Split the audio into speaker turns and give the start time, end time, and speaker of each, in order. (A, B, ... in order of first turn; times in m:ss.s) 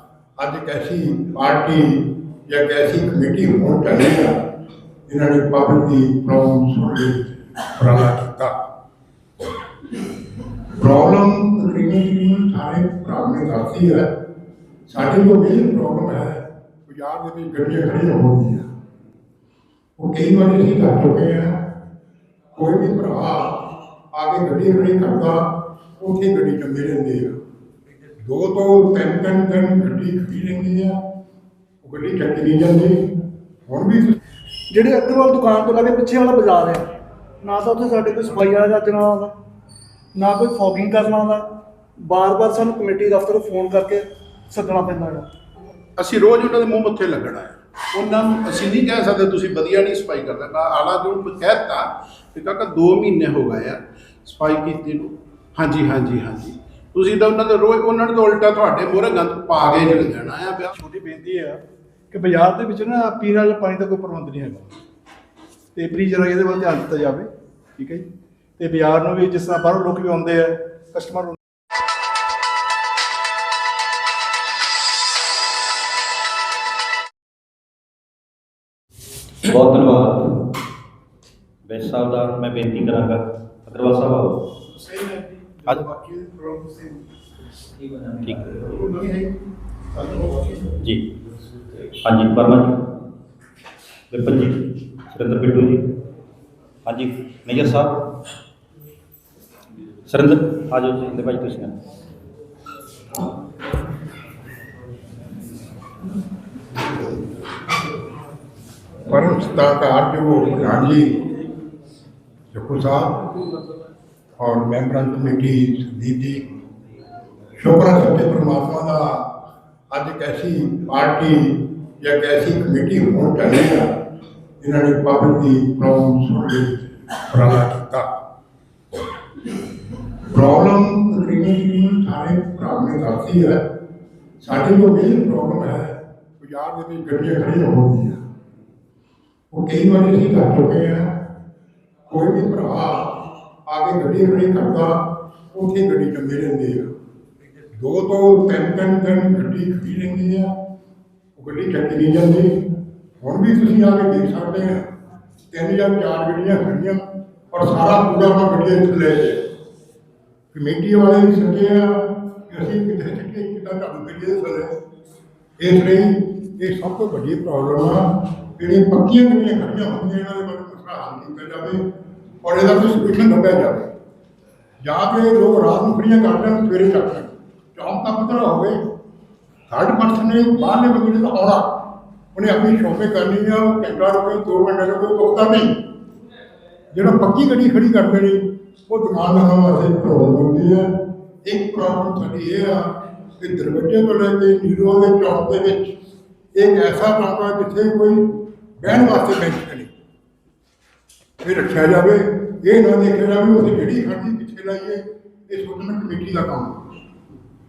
0:00.4-0:04.4 A
0:05.1-0:08.5 A
0:10.8-0:14.1 A
0:14.9-0:18.7 A
0:20.0-0:21.6 A
0:22.6-0:27.3 A
0:28.2-0:31.0 A
0:31.8-0:33.0 A
0:33.7-0:34.2 A
0:34.7-0:36.9 B
0:37.4-0:39.3 B
0:40.1-0:41.5 B
0:42.0-0:45.3 B
0:46.0-1:00.7 C
1:00.8-1:04.8 D
1:05.7-1:08.1 D
1:08.6-1:11.4 D
1:19.4-1:20.3 E
1:21.6-1:24.4 E
1:24.7-1:27.0 C
1:28.2-1:28.6 E
1:28.6-1:29.3 C
1:30.0-1:30.6 C
1:32.0-1:32.8 E
1:34.1-1:35.8 E
1:36.8-1:38.0 E
1:40.1-1:41.7 E
1:49.1-1:51.2 A
1:52.5-1:53.3 A
1:54.4-1:56.4 A
1:57.6-1:59.3 A
1:59.9-2:03.9 A
2:04.6-2:08.1 A
2:10.3-2:13.6 A
2:14.4-2:18.2 A
2:19.5-2:21.1 A
2:22.1-2:26.9 A
2:27.7-2:30.5 A
2:31.4-2:32.5 A
2:33.2-2:34.9 A
2:35.5-2:39.4 A
2:40.5-2:44.7 A
2:45.6-2:51.8 A
2:52.4-2:53.9 A
2:54.8-2:58.8 A
2:59.7-3:01.8 A
3:02.3-3:05.7 A
3:06.9-3:10.9 A
3:11.4-3:15.9 A
3:16.5-3:18.2 A
3:18.8-3:19.9 A
3:21.4-3:27.0 A